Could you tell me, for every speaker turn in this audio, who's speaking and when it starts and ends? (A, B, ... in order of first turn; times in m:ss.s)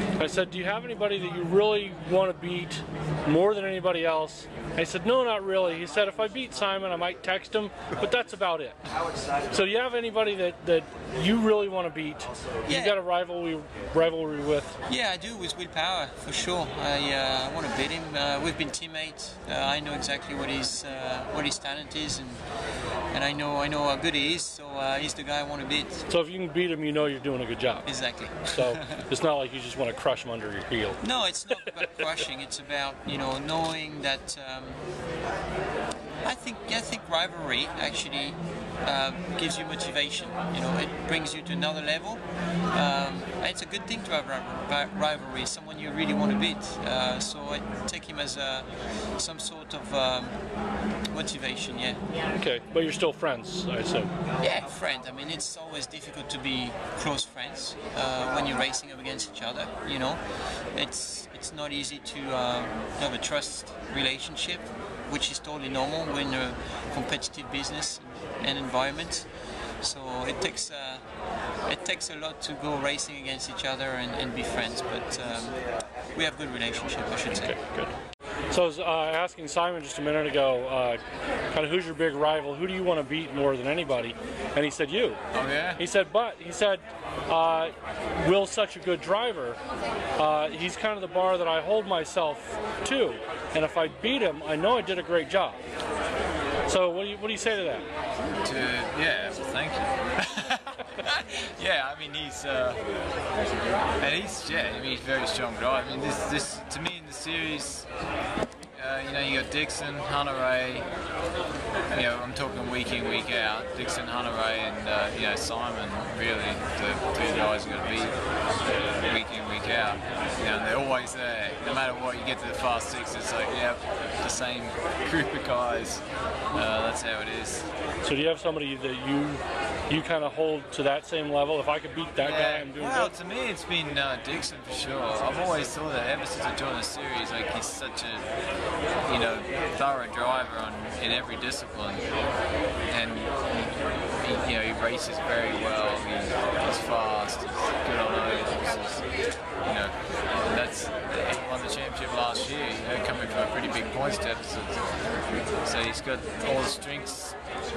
0:00.2-0:08.8 A
0:09.5-0:14.8 A
0:12.7-0:13.0 B
0:14.9-0:22.4 B
0:23.1-0:26.0 B
0:26.1-0:27.9 A
0:27.8-0:28.9 B
0:28.4-0:31.0 A
0:31.0-0:34.8 B
0:36.2-0:50.3 B
0:51.1-0:52.0 B
0:52.3-0:54.1 A
0:54.4-1:00.2 B
1:00.7-1:09.3 B
1:09.8-1:11.0 B
1:11.7-1:15.6 B
1:16.1-1:17.5 B
1:17.3-1:17.9 A
1:18.5-1:21.0 A
1:21.5-1:25.2 A
1:25.3-1:25.8 C
1:25.8-1:29.6 A
1:30.2-1:35.6 A
1:36.7-1:37.9 A
1:38.4-1:42.8 C
1:44.0-1:47.9 C
1:48.8-1:50.9 C
1:51.9-1:58.1 C
1:59.0-2:07.7 C
2:08.0-2:13.1 A
2:12.2-2:18.3 C
2:19.0-2:22.1 C
2:22.9-2:29.1 C
2:29.6-2:34.8 C
2:35.6-2:37.4 C